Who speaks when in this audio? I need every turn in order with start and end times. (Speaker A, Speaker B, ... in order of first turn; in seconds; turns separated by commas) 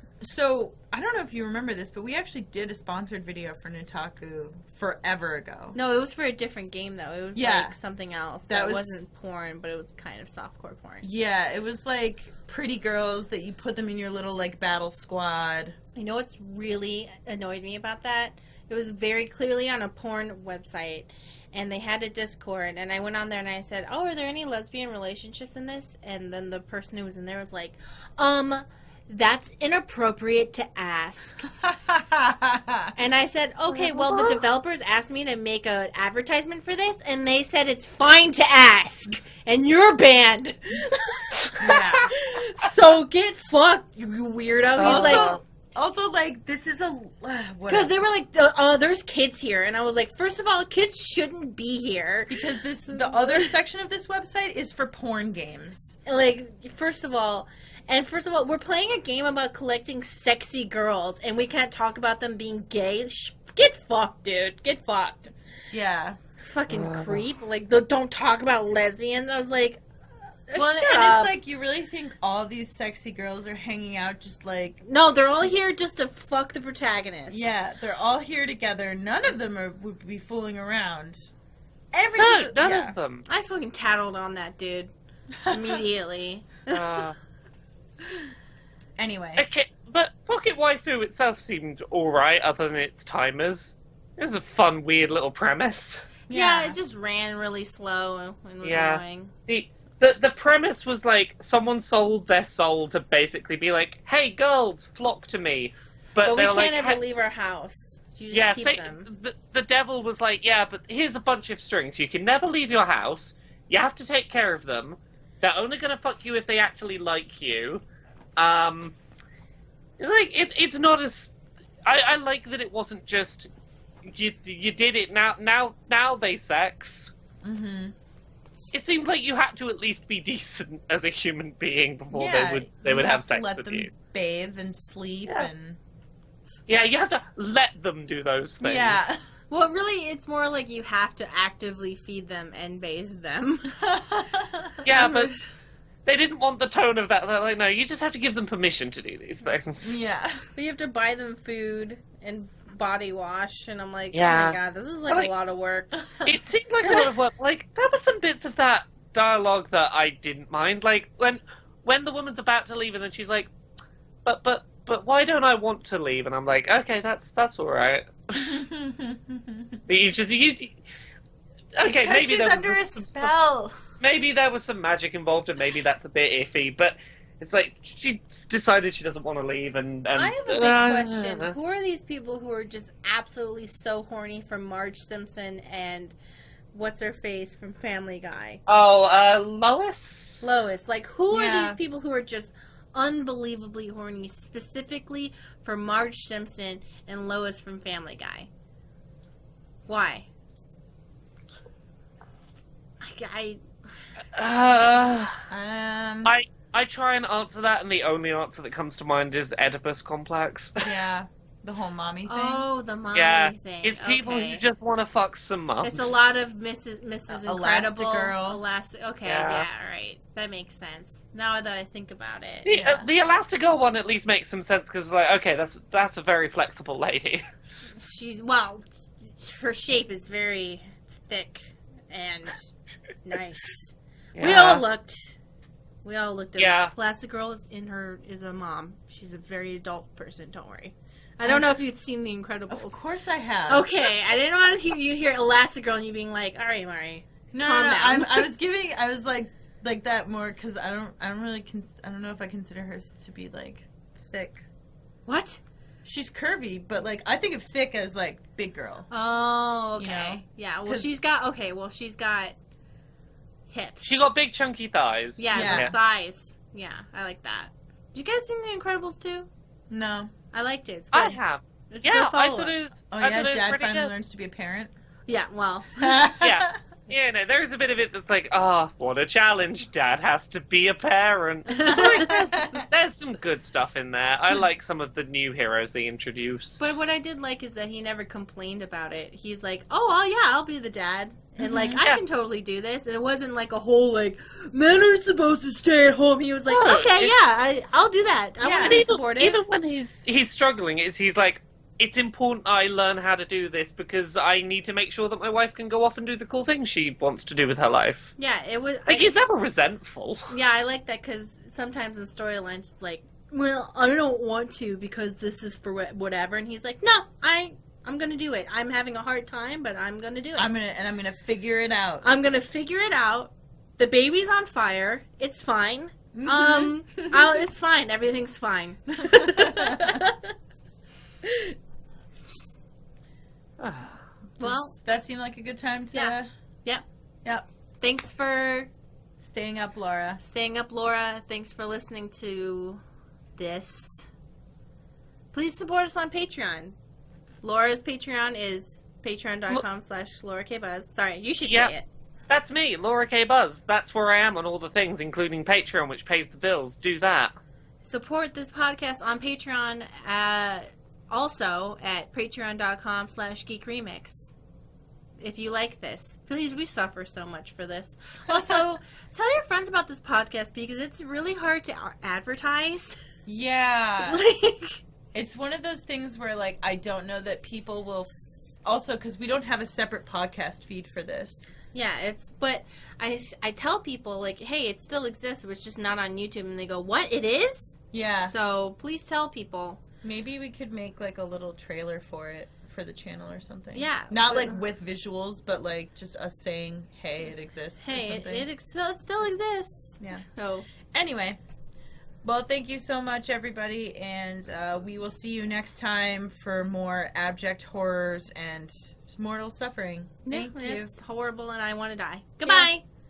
Speaker A: 0.2-5.8, Speaker B: 5.7-11.1, Speaker A: 7.3-7.8, Speaker A: 8.5-9.0, Speaker A: 11.0-15.8, Speaker B: 15.9-31.5, Speaker A: 31.6-32.9, Speaker B: 33.0-45.4, Speaker C: 33.7-34.4, Speaker A: 41.6-42.1, Speaker C: 44.8-45.4, Speaker A: 44.8-47.9, Speaker B: 47.7-53.5, Speaker A: 52.3-56.0, Speaker B: 56.0-65.3, Speaker A: 65.7-66.2, Speaker B: 66.4-69.8, Speaker C: 66.7-67.2, Speaker B: 70.5-71.3, Speaker A: 70.5-74.8, Speaker B: 74.8-77.5, Speaker A: 77.3-81.3, Speaker A: 81.9-83.0, Speaker C: 82.2-83.2, Speaker B: 83.3-84.9, Speaker B: 85.5-87.1, Speaker C: 86.7-87.2, Speaker A: 89.0-89.5, Speaker C: 89.4-96.1, Speaker B: 96.3-99.3, Speaker A: 96.3-96.8, Speaker C: 98.6-107.0, Speaker B: 106.2-109.1, Speaker C: 108.3-117.8, Speaker C: 118.4-119.0, Speaker C: 120.0-123.5, Speaker C: 124.0-127.1, Speaker A: 127.4-128.0, Speaker C: 128.7-133.9, Speaker A: 132.1-135.8, Speaker C: 136.7-139.0, Speaker A: 138.6-139.2, Speaker B: 139.5-143.7, Speaker A: 143.8-144.8, Speaker C: 144.8-145.3, Speaker B: 144.9-145.4, Speaker C: 146.1-150.0, Speaker A: 149.8-150.5, Speaker B: 150.6-156.1, Speaker C: 154.1-154.6, Speaker C: 156.2-163.5, Speaker C: 164.2-168.6, Speaker A: 168.3-169.8, Speaker C: 169.9-170.8, Speaker C: 171.8-173.3, Speaker A: 171.8-173.8, Speaker C: 174.0-181.5, Speaker B: 180.2-186.2, Speaker B: 186.7-188.6, Speaker C: 188.7-190.5, Speaker B: 190.4-198.5, Speaker A: 191.3-191.8, Speaker B: 199.9-200.3, Speaker B: 203.0-203.6, Speaker C: 204.3-205.5, Speaker A: 205.5-206.3, Speaker C: 206.2-210.9, Speaker A: 210.8-212.7, Speaker B: 212.3-214.6, Speaker C: 213.1-216.2, Speaker B: 215.8-223.1, Speaker A: 217.3-218.6, Speaker C: 219.2-219.7, Speaker C: 222.7-227.4, Speaker B: 228.0-232.7, Speaker B: 233.2-235.4, Speaker C: 234.3-234.8, Speaker B: 236.0-243.0, Speaker C: 236.6-236.9, Speaker A: 242.7-243.9, Speaker B: 243.7-248.5, Speaker A: 247.5-254.6, Speaker B: 255.3-255.6, Speaker A: 256.0-259.1, Speaker B: 259.1-262.6, Speaker A: 260.0-261.2, Speaker B: 263.7-264.3, Speaker C: 264.0-265.9, Speaker B: 265.4-269.5, Speaker A: 265.5-265.9, Speaker A: 269.9-270.3, Speaker B: 270.5-271.4, Speaker C: 271.1-274.1, Speaker B: 271.9-272.8, Speaker A: 273.1-274.9, Speaker B: 275.3-276.3, Speaker A: 276.0-276.8, Speaker C: 276.4-286.9, Speaker B: 281.7-282.5, Speaker A: 281.9-282.9, Speaker B: 286.8-299.6, Speaker A: 291.6-292.0, Speaker C: 296.7-297.3, Speaker A: 298.6-299.1, Speaker C: 298.8-308.3, Speaker B: 308.4-309.4, Speaker C: 309.1-310.5, Speaker B: 310.5-320.7, Speaker A: 320.6-322.3, Speaker B: 322.2-330.5, Speaker A: 326.3-327.6, Speaker A: 329.3-330.2, Speaker B: 331.4-331.8, Speaker C: 333.8-334.2, Speaker B: 334.6-335.0, Speaker A: 334.6-336.5, Speaker B: 336.1-337.0, Speaker B: 338.0-338.9, Speaker A: 339.4-340.4, Speaker B: 340.4-343.0, Speaker B: 343.6-344.3, Speaker B: 345.5-347.0, Speaker B: 347.6-352.1, Speaker C: 351.7-351.9, Speaker C: 352.5-357.5, Speaker B: 358.1-364.5, Speaker B: 365.4-373.2, Speaker A: 373.5-374.4, Speaker B: 374.2-375.0, Speaker A: 375.3-378.3, Speaker A: 378.9-381.7, Speaker B: 381.9-390.0, Speaker A: 388.1-388.5, Speaker A: 390.2-398.7, Speaker B: 393.9-394.8, Speaker B: 398.0-400.9, Speaker A: 400.2-400.4, Speaker A: 401.1-401.6, Speaker A: 402.4-411.1, Speaker B: 410.5-413.0